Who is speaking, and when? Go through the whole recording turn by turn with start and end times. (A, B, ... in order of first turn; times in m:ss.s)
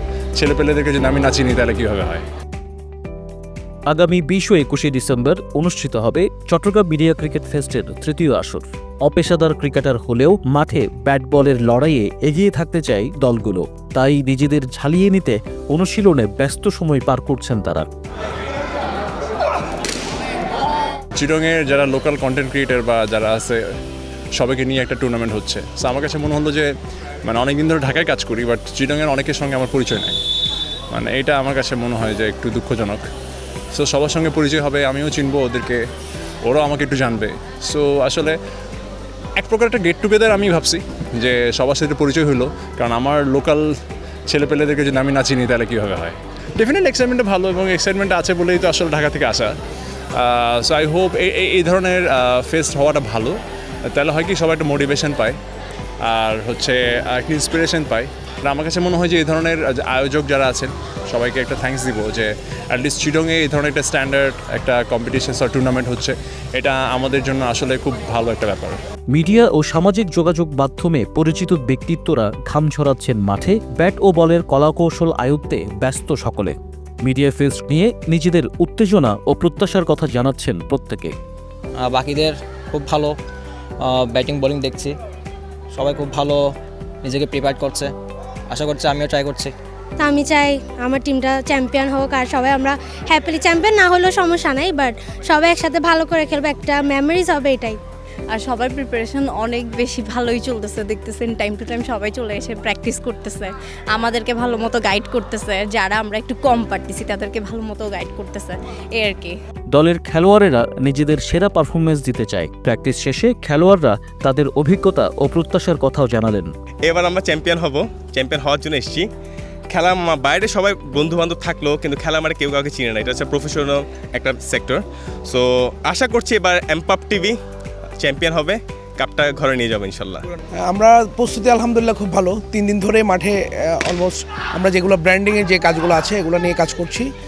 0:00.4-0:02.2 A
0:03.9-0:17.9 B
0:21.2-0:23.6 A
0:24.4-0:26.7 A
0:27.3-0:30.2 A
0:30.9-0:33.1 A
0:33.7-0:35.8 A
0:36.4-0:38.4 A
0:39.4-0:43.6 A
0:44.3-0:49.5 A
0:50.2-0:53.4 A
0:53.9-0:55.4 A
0:56.0-1:08.8 A
1:09.1-1:21.2 B
1:21.9-1:23.1 C
1:23.9-1:25.0 C
1:25.8-1:26.4 C
1:27.0-1:27.9 C
1:28.5-1:29.5 C
1:30.0-1:37.8 D
1:38.3-1:49.3 E
1:49.7-1:56.5 B
1:56.8-1:59.1 F
1:59.7-2:07.4 F
2:08.0-2:10.2 F
2:10.6-2:17.1 G